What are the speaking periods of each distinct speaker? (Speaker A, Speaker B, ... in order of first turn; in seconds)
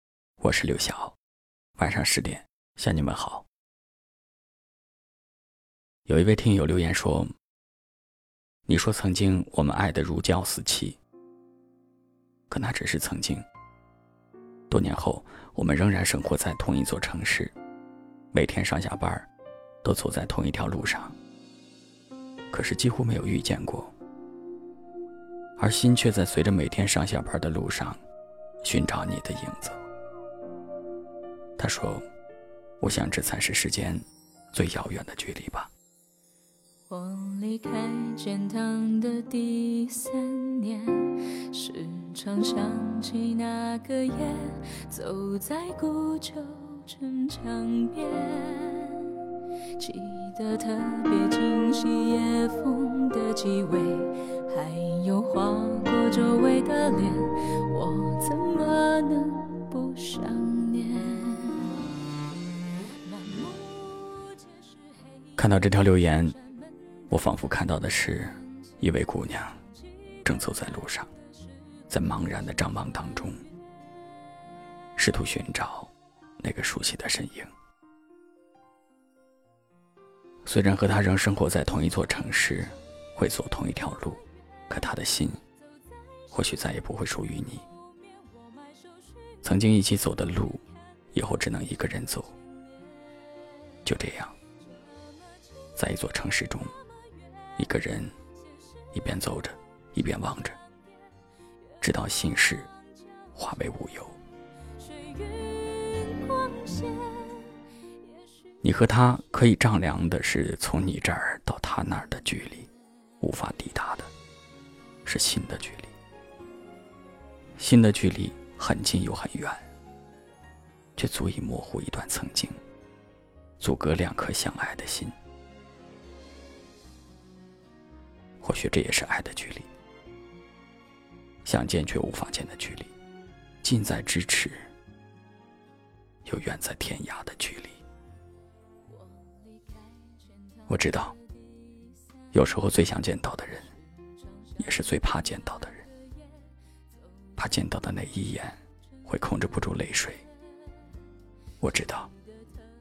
Speaker A: 0.4-1.2, 1.8-3.5, 6.1-7.3, 8.7-11.0, 12.5-13.4, 14.7-17.5, 18.3-19.3, 19.8-21.2, 22.5-23.9, 25.6-28.0, 28.6-29.8, 31.6-32.0, 32.8-35.7, 65.4-66.4, 67.1-69.6, 70.2-71.1, 71.9-73.4, 75.0-77.5, 80.5-85.4, 86.3-87.7, 89.4-92.3, 93.8-94.4, 95.8-96.7, 97.6-98.2, 98.9-100.6, 101.8-102.7, 103.3-104.2, 108.6-112.7, 113.2-114.1, 115.1-115.9, 117.6-119.7, 121.0-122.6, 123.6-125.2, 128.4-129.7, 131.4-132.9, 133.6-134.7, 136.2-137.8, 140.7-141.2, 142.3-143.7, 144.6-145.8, 147.4-150.2, 151.6-152.1
Speaker B: 36.9-49.2, 49.8-61.9, 63.1-64.7, 105.0-107.7, 139.2-140.2